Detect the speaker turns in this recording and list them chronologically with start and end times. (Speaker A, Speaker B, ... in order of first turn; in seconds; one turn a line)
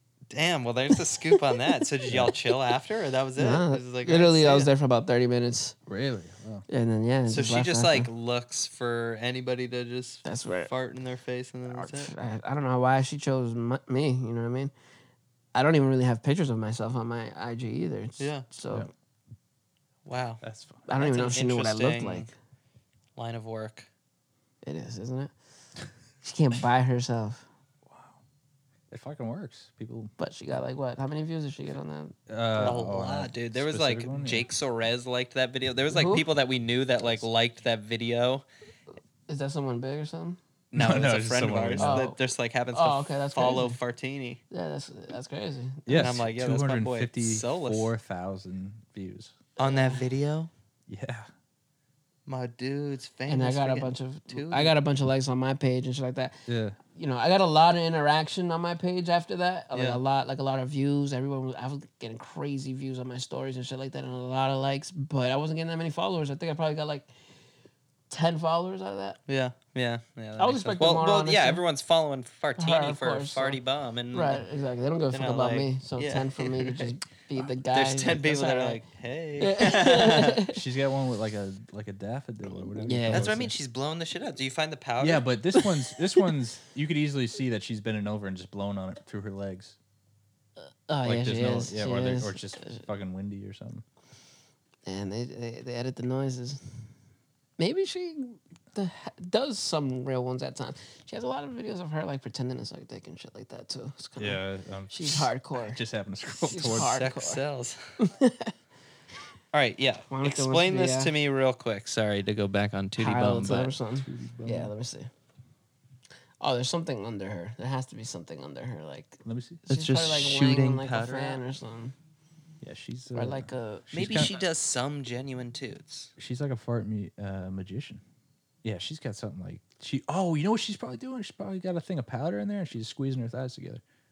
Speaker A: 0.3-4.7
Speaker B: 2.1-2.3
Speaker C: 3.4-5.8
Speaker B: 5.9-6.7
Speaker C: 6.7-8.1
Speaker A: 7.3-12.1
Speaker C: 10.2-10.7
Speaker C: 11.7-14.7
Speaker C: 15.5-18.9
Speaker A: 18.2-18.5
Speaker A: 20.1-20.4
Speaker B: 20.4-20.9
Speaker C: 20.9-22.3
Speaker A: 21.0-22.3
Speaker A: 23.2-23.9
Speaker C: 24.6-25.3
Speaker C: 26.2-27.4
Speaker B: 27.9-28.2
Speaker B: 28.9-30.1
Speaker C: 30.2-32.1
Speaker B: 32.3-34.5
Speaker A: 32.6-38.5
Speaker C: 35.9-36.3
Speaker C: 39.3-40.4
Speaker A: 40.7-44.4
Speaker B: 40.8-42.0
Speaker C: 41.8-42.2
Speaker C: 42.7-43.8
Speaker C: 44.5-46.1
Speaker B: 45.9-49.4
Speaker A: 46.0-47.9
Speaker A: 49.6-50.5
Speaker C: 49.6-50.0
Speaker B: 50.9-51.3
Speaker A: 52.3-54.7
Speaker C: 53.3-56.4
Speaker B: 56.5-56.8
Speaker C: 56.9-67.1
Speaker A: 59.7-60.0
Speaker C: 68.1-69.2
Speaker A: 69.3-74.5
Speaker C: 70.4-71.6
Speaker C: 72.6-73.6
Speaker C: 74.1-78.8
Speaker A: 75.1-76.9
Speaker A: 77.7-80.4
Speaker C: 79.4-80.6
Speaker B: 80.5-83.5
Speaker C: 82.7-83.3
Speaker A: 83.1-85.2
Speaker B: 85.0-89.8
Speaker C: 90.6-92.8
Speaker B: 91.0-93.8
Speaker C: 94.9-96.8
Speaker C: 97.6-105.8
Speaker B: 104.2-107.0
Speaker C: 106.4-107.4
Speaker A: 106.8-107.8
Speaker C: 108.0-108.5
Speaker A: 109.5-113.7
Speaker C: 110.1-111.1
Speaker C: 113.0-115.1
Speaker B: 114.0-114.7
Speaker C: 116.4-122.0
Speaker B: 119.2-119.6
Speaker A: 119.7-121.4
Speaker B: 122.6-124.3
Speaker C: 123.1-123.9
Speaker A: 123.9-126.1
Speaker B: 126.2-128.0
Speaker B: 128.6-133.8